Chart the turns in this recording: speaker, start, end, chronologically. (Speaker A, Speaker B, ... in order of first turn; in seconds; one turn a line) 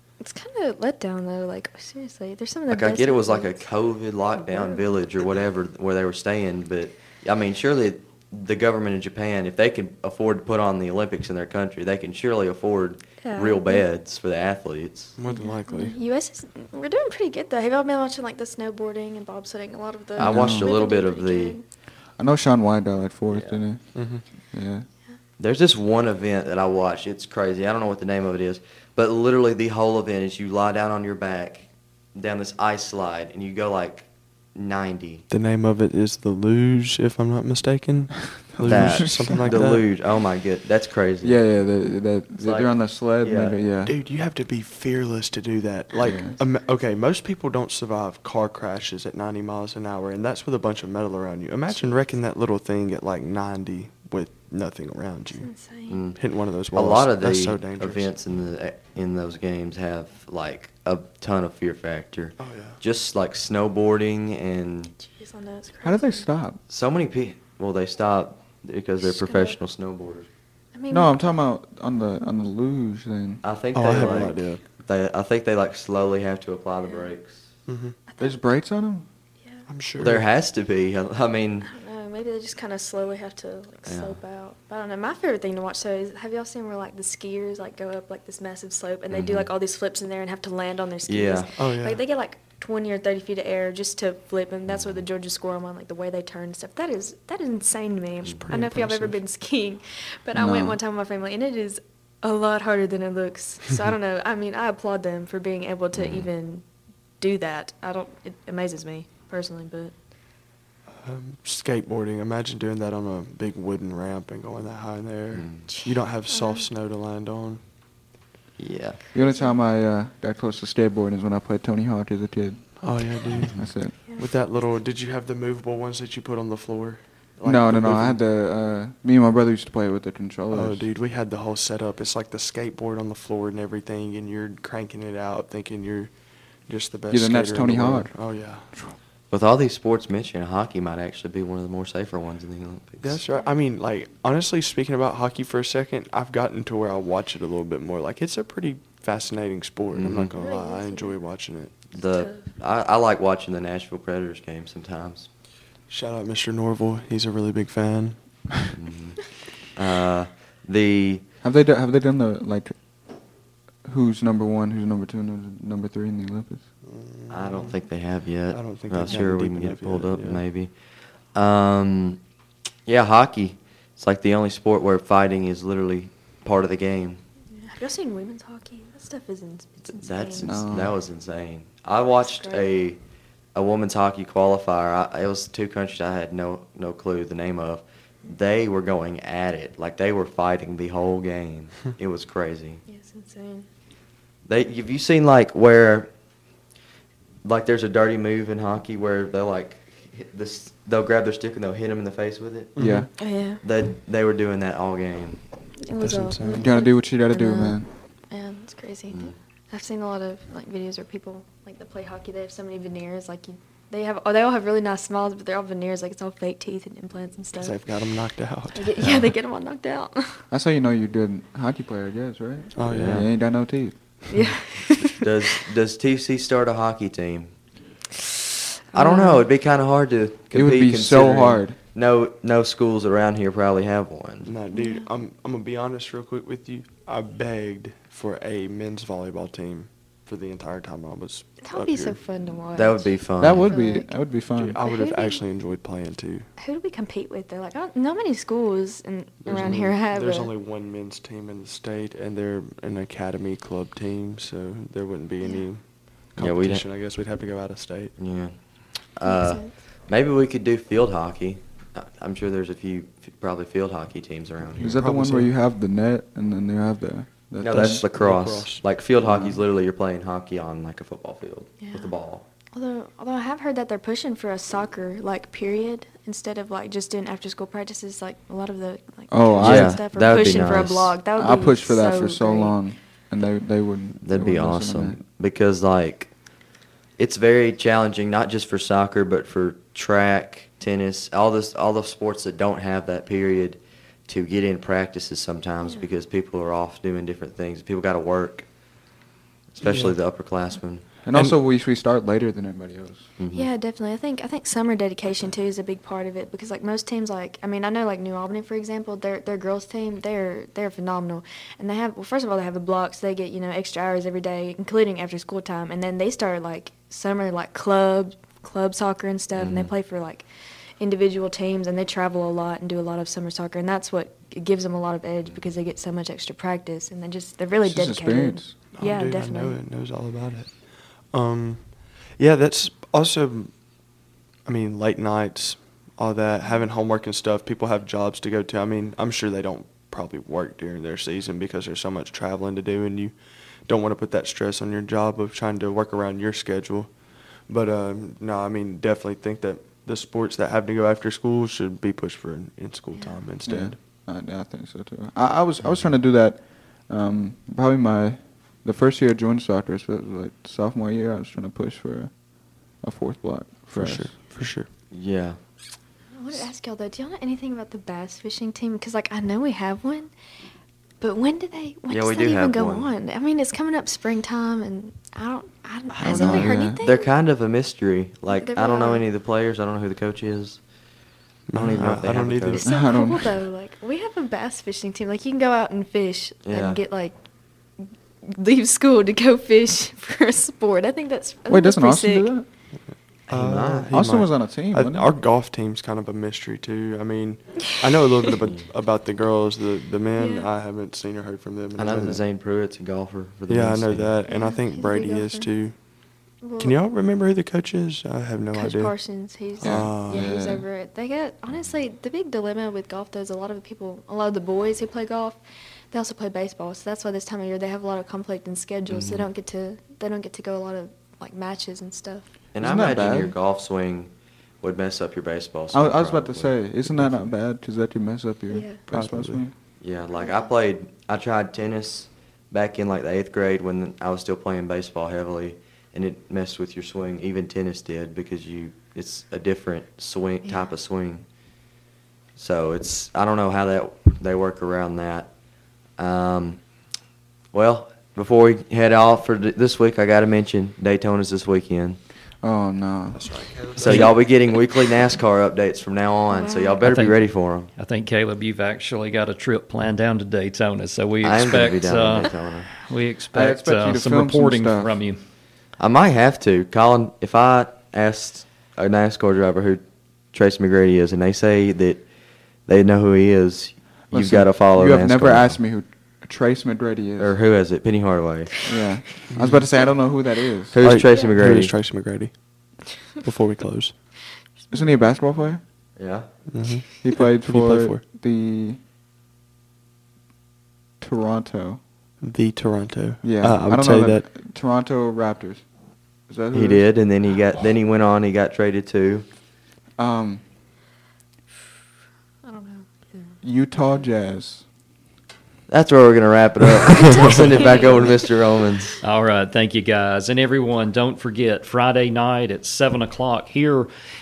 Speaker A: 0.2-3.7
Speaker B: 2.7-15.2
Speaker A: 4.3-5.0
Speaker A: 13.2-13.9
Speaker C: 15.2-15.9
Speaker A: 15.3-21.7
Speaker B: 20.2-21.6
Speaker D: 20.2-20.7
Speaker D: 22.2-24.9
Speaker B: 23.3-23.6
Speaker C: 23.9-24.2
Speaker B: 25.4-35.2
Speaker C: 35.3-39.9
Speaker D: 38.6-39.6
Speaker B: 38.7-41.4
Speaker D: 41.2-44.0
Speaker B: 42.4-43.6
Speaker C: 43.9-55.5
Speaker D: 46.0-46.4
Speaker A: 55.4-56.0
Speaker B: 55.9-56.2
Speaker C: 56.2-58.1
Speaker B: 56.7-64.9
Speaker C: 62.4-62.8
Speaker A: 65.0-66.2
Speaker D: 65.8-66.6
Speaker B: 66.7-70.3
Speaker A: 69.0-69.6
Speaker A: 70.7-71.2
Speaker D: 70.9-73.4
Speaker B: 73.4-77.5
Speaker C: 73.7-74.6
Speaker A: 74.0-74.5
Speaker C: 77.7-78.0
Speaker A: 78.1-78.4
Speaker D: 78.2-79.0
Speaker C: 79.7-80.2
Speaker B: 80.0-81.7
Speaker A: 81.6-106.7
Speaker B: 83.9-84.2
Speaker B: 89.1-89.5
Speaker B: 91.1-91.5
Speaker C: 91.6-92.0
Speaker B: 94.7-95.0
Speaker C: 98.4-99.2
Speaker D: 100.3-100.8
Speaker B: 106.0-106.3
Speaker A: 107.2-110.0
Speaker C: 110.9-117.6
Speaker B: 115.3-115.7
Speaker A: 115.7-116.7
Speaker B: 118.6-119.0
Speaker D: 119.1-124.0
Speaker A: 119.2-119.6
Speaker C: 122.8-128.2
Speaker D: 127.4-130.9
Speaker C: 130.5-136.1
Speaker C: 136.7-138.7
Speaker D: 137.1-138.1
Speaker B: 139.3-143.2
Speaker C: 143.0-151.8
Speaker B: 149.9-150.3
Speaker A: 150.3-151.2
Speaker B: 151.9-155.3
Speaker A: 152.0-152.5
Speaker C: 155.9-158.5
Speaker B: 158.7-161.2
Speaker D: 161.4-162.8
Speaker D: 163.8-166.6
Speaker C: 166.8-167.8
Speaker B: 167.3-170.7
Speaker C: 168.5-170.4
Speaker B: 171.3-172.2
Speaker B: 172.9-177.2
Speaker A: 177.6-180.7
Speaker B: 179.9-183.0
Speaker D: 180.4-181.0
Speaker A: 182.2-182.7
Speaker B: 183.6-192.8
Speaker A: 192.9-193.7
Speaker B: 194.5-196.1
Speaker B: 197.4-202.8
Speaker C: 202.8-203.1
Speaker D: 202.8-203.1
Speaker A: 203.2-203.6
Speaker B: 203.6-205.4
Speaker A: 205.8-217.9
Speaker C: 206.0-206.7
Speaker D: 206.6-207.9
Speaker B: 209.1-209.4
Speaker C: 217.6-219.1
Speaker A: 218.8-220.4
Speaker D: 220.5-224.5
Speaker C: 222.8-223.3
Speaker B: 222.9-223.3
Speaker A: 224.3-225.6
Speaker B: 225.1-227.5
Speaker A: 228.9-229.4
Speaker B: 228.9-234.5
Speaker D: 230.5-231.8
Speaker C: 234.4-242.2
Speaker A: 234.7-235.1
Speaker A: 241.6-244.2
Speaker B: 242.7-243.7
Speaker D: 243.4-244.8
Speaker C: 244.5-246.5
Speaker A: 244.8-245.4
Speaker A: 246.6-250.5
Speaker C: 249.4-258.2
Speaker B: 256.4-256.8
Speaker B: 258.2-265.0
Speaker A: 259.2-259.7
Speaker C: 264.8-265.5
Speaker D: 264.8-268.1
Speaker B: 267.6-272.4
Speaker C: 267.8-268.9
Speaker D: 269.2-269.6
Speaker A: 271.8-272.1
Speaker A: 272.7-282.8
Speaker D: 279.3-280.7
Speaker B: 279.6-281.2
Speaker D: 281.4-285.2
Speaker B: 284.2-286.3
Speaker B: 287.2-298.7
Speaker B: 299.7-301.1
Speaker C: 299.8-300.2
Speaker D: 301.2-303.2
Speaker C: 301.3-301.6
Speaker B: 303.4-303.7
Speaker A: 303.5-320.5
Speaker B: 319.6-319.9
Speaker A: 321.0-329.8
Speaker D: 327.9-328.8
Speaker C: 328.9-333.8
Speaker C: 334.6-343.3
Speaker C: 343.9-354.0
Speaker D: 353.7-362.3
Speaker D: 363.0-364.3
Speaker C: 363.9-364.9
Speaker B: 365.1-365.6
Speaker A: 366.3-370.3
Speaker A: 371.2-377.3
Speaker B: 372.1-373.1
Speaker B: 376.1-380.8
Speaker D: 376.2-377.0
Speaker A: 378.5-379.2
Speaker C: 381.7-382.9
Speaker B: 381.7-382.9
Speaker A: 382.7-387.4
Speaker D: 382.9-383.5
Speaker B: 386.6-387.0
Speaker A: 388.0-392.5
Speaker D: 391.7-392.7
Speaker B: 393.5-394.1
Speaker C: 393.5-402.4
Speaker D: 394.1-395.3
Speaker A: 400.4-400.7
Speaker B: 402.0-404.3
Speaker C: 403.7-406.1
Speaker A: 404.5-405.7
Speaker A: 406.6-407.0
Speaker C: 406.8-410.5
Speaker A: 408.7-415.6
Speaker D: 409.8-410.9
Speaker A: 416.1-422.5
Speaker B: 419.1-419.4
Speaker B: 422.7-426.9
Speaker D: 422.8-423.6
Speaker D: 425.9-429.7
Speaker A: 428.7-429.0
Speaker C: 429.1-429.6
Speaker B: 430.0-441.4
Speaker A: 440.6-440.9
Speaker B: 442.6-445.5
Speaker B: 446.2-446.8
Speaker B: 447.7-452.2
Speaker D: 452.6-453.4
Speaker C: 453.3-454.3
Speaker B: 454.0-457.9
Speaker A: 456.5-457.0
Speaker E: 457.0-457.4
Speaker E: 458.0-465.4
Speaker B: 461.4-462.9
Speaker D: 463.5-465.2
Speaker B: 466.0-472.3
Speaker B: 472.9-475.8
Speaker D: 474.3-477.6
Speaker B: 477.4-478.9
Speaker D: 478.9-481.0
Speaker C: 479.5-479.9
Speaker B: 480.9-481.9
Speaker C: 481.0-484.2
Speaker D: 484.9-485.8
Speaker B: 486.2-486.5
Speaker C: 486.7-488.2
Speaker D: 487.2-489.0
Speaker D: 491.2-492.0
Speaker C: 492.4-494.4
Speaker D: 493.4-495.8
Speaker D: 496.5-497.0
Speaker B: 496.7-499.5
Speaker D: 500.2-500.6
Speaker A: 502.6-503.5
Speaker D: 503.6-504.9
Speaker B: 505.9-509.2
Speaker A: 507.8-508.1
Speaker E: 509.2-514.1